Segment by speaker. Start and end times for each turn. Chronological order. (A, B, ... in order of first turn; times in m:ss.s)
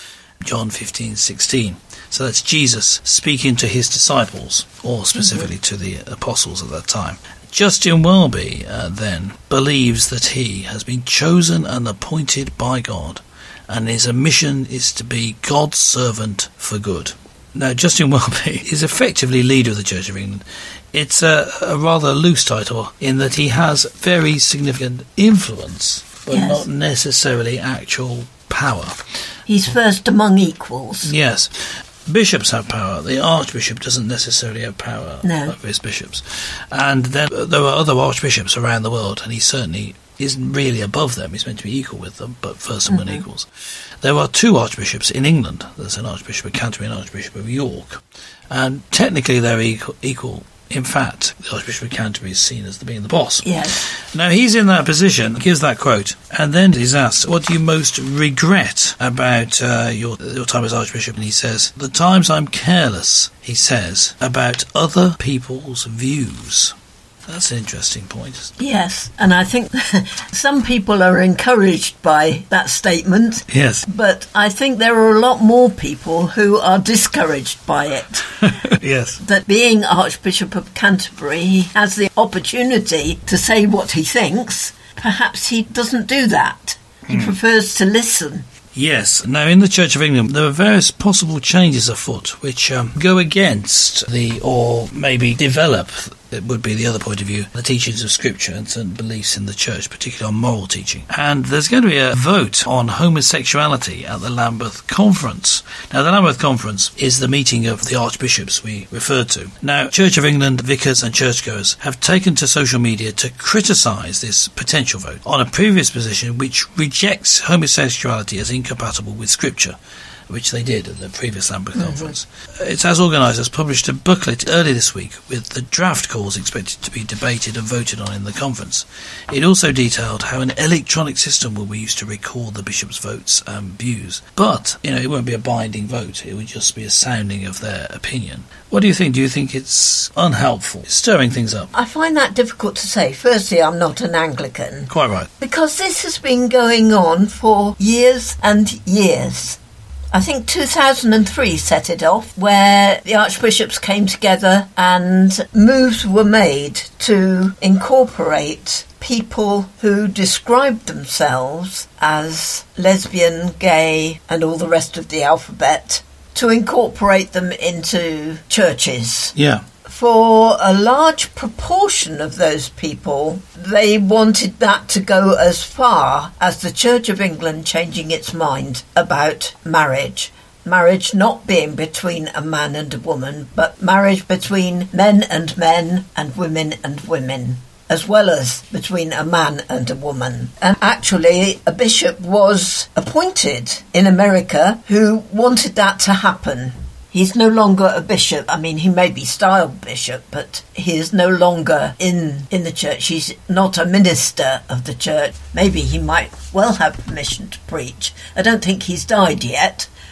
0:00.4-0:29.0 A
0:26.3-0:26.7 B
0:29.5-0:31.1 B
0:31.0-0:31.5 A
0:32.1-0:43.5 A
0:35.2-0:35.6 B
0:42.9-0:43.2 B
0:44.0-1:06.8 A
0:53.4-0:53.8 B
1:07.3-1:08.5 A
1:08.6-1:18.4 B
1:13.5-1:13.9 A
1:18.4-1:19.2 A
1:19.2-1:28.5 B
1:27.1-1:27.4 A
1:28.8-1:59.8 A
2:00.3-2:21.7 A
2:01.8-2:02.1 B
2:21.7-2:29.6 B
2:24.9-2:25.3 A
2:30.1-3:29.9 B
2:49.4-2:49.6 A